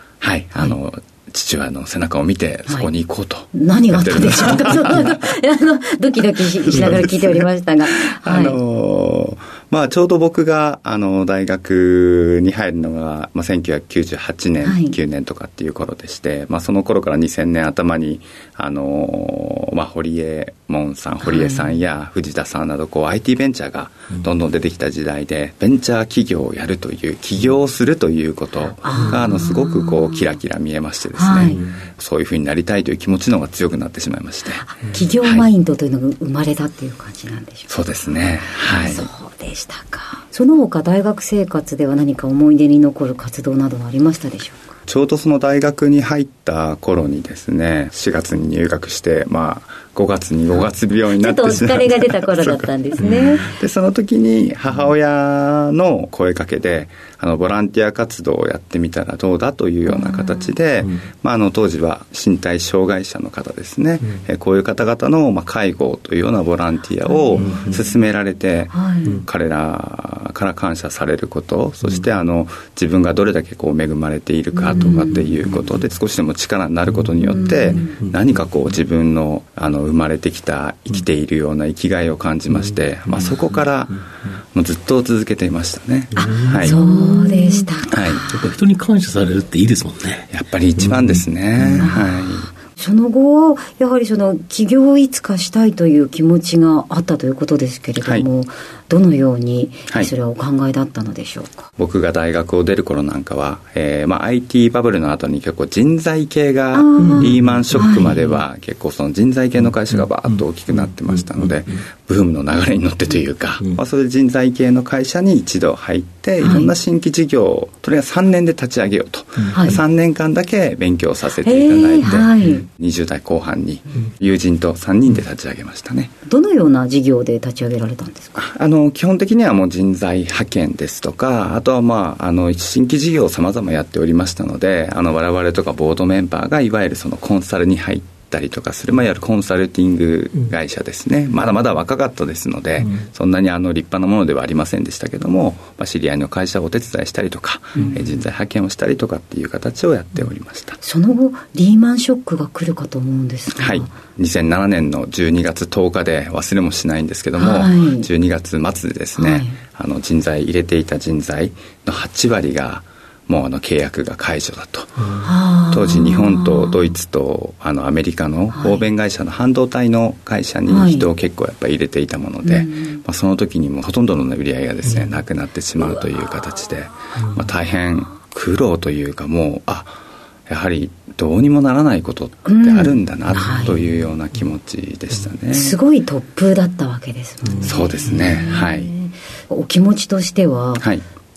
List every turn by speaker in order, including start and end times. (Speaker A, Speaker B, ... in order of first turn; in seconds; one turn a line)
Speaker A: 0.2-5.3
Speaker B: 3.5-8.6
Speaker A: 6.7-7.1
Speaker A: 8.1-34.6
Speaker B: 14.6-14.9
Speaker B: 21.2-21.8
Speaker B: 28.8-30.3
Speaker B: 31.1-31.6
Speaker B: 34.6-37.7
Speaker A: 35.2-35.5
Speaker A: 37.7-39.1
Speaker B: 38.6-44.7
Speaker A: 44.9-86.8
Speaker B: 51.2-53.5
Speaker B: 59.9-60.5
Speaker B: 67.1-67.6
Speaker C: 67.4-67.8
Speaker B: 68.7-69.2
Speaker B: 74.5-75.3
Speaker B: 77.3-78.0
Speaker C: 77.8-78.2
Speaker C: 83.1-83.5
Speaker B: 86.2-88.4
Speaker C: 86.2-86.8
Speaker A: 87.9-88.2
Speaker C: 88.3-91.9
Speaker A: 90.3-92.5
Speaker B: 91.8-101.7
Speaker A: 101.8-126.1
Speaker B: 106.7-108.3
Speaker C: 107.0-107.9
Speaker C: 109.9-111.7
Speaker B: 116.4-116.7
Speaker C: 119.5-119.8
Speaker B: 119.5-119.8
Speaker B: 121.4-122.7
Speaker B: 126.3-128.4
Speaker A: 128.4-150.8
Speaker B: 150.8-153.9
Speaker A: 153.6-185.8
Speaker B: 157.4-158.1
Speaker B: 159.2-159.6
Speaker B: 165.2-166.9
Speaker B: 168.5-168.9
Speaker B: 170.7-171.1
Speaker B: 172.4-173.0
Speaker B: 182.5-183.8
Speaker B: 185.5-190.8
Speaker A: 187.6-188.9